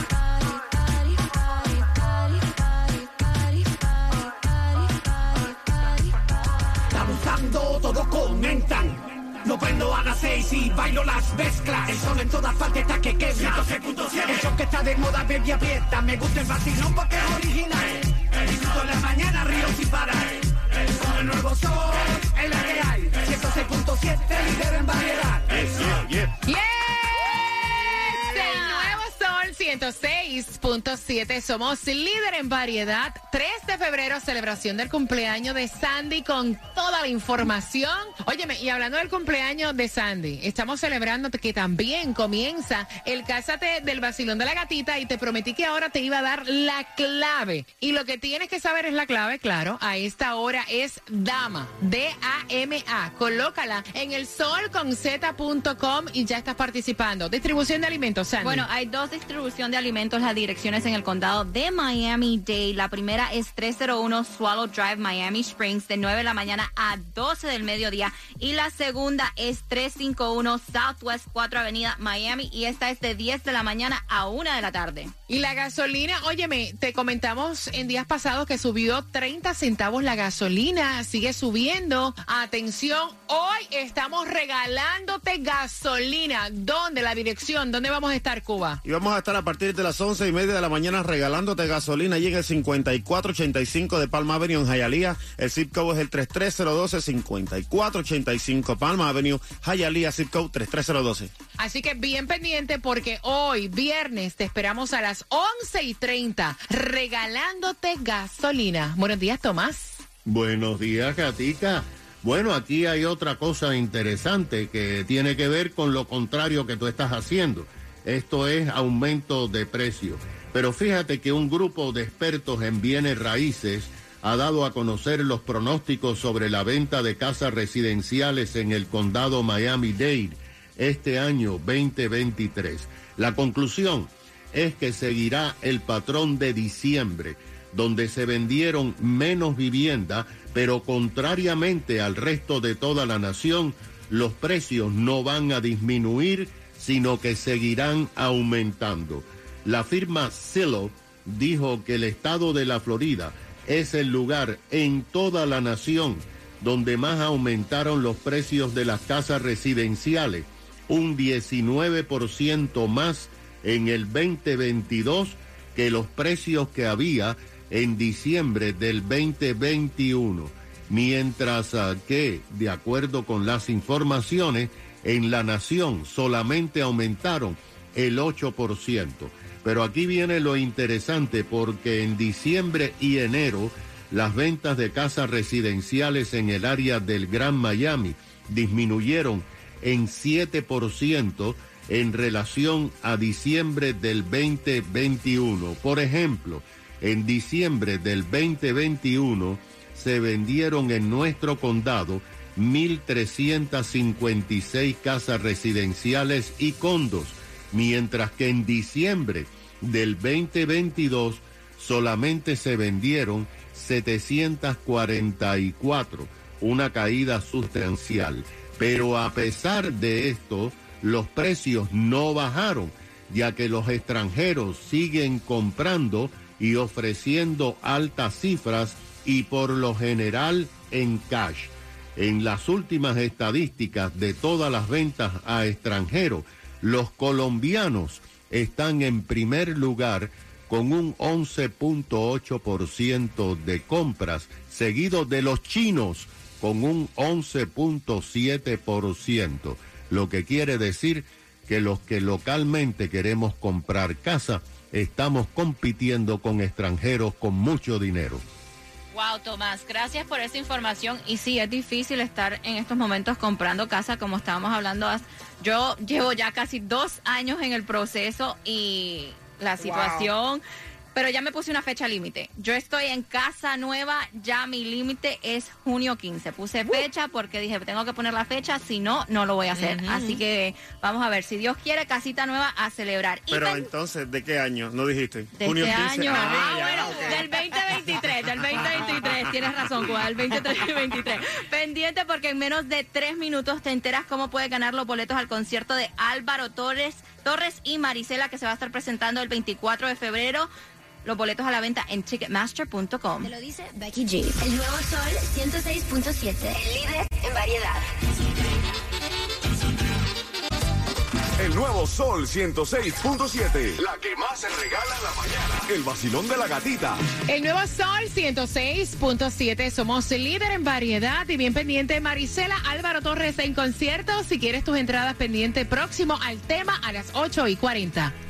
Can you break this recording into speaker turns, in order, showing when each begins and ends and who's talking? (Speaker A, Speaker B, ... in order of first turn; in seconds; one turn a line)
Speaker A: 6.9-25.7
Speaker B: 25.5-26.3
Speaker C: 26.4-58.6
Speaker D: 58.4-75.1
Speaker C: 75.3-88.8
Speaker B: 88.8-101.3
Speaker C: 101.6-110.0
Speaker E: 110.2-258.4
Speaker D: 259.1-270.6
Speaker D: 271.1-283.9
Speaker B: 283.5-287.4
Speaker D: 285.6-300.7
Speaker D: 301.2-303.5
Speaker F: 303.4-308.0
Speaker G: 311.6-317.2
Speaker C: 317.5-328.3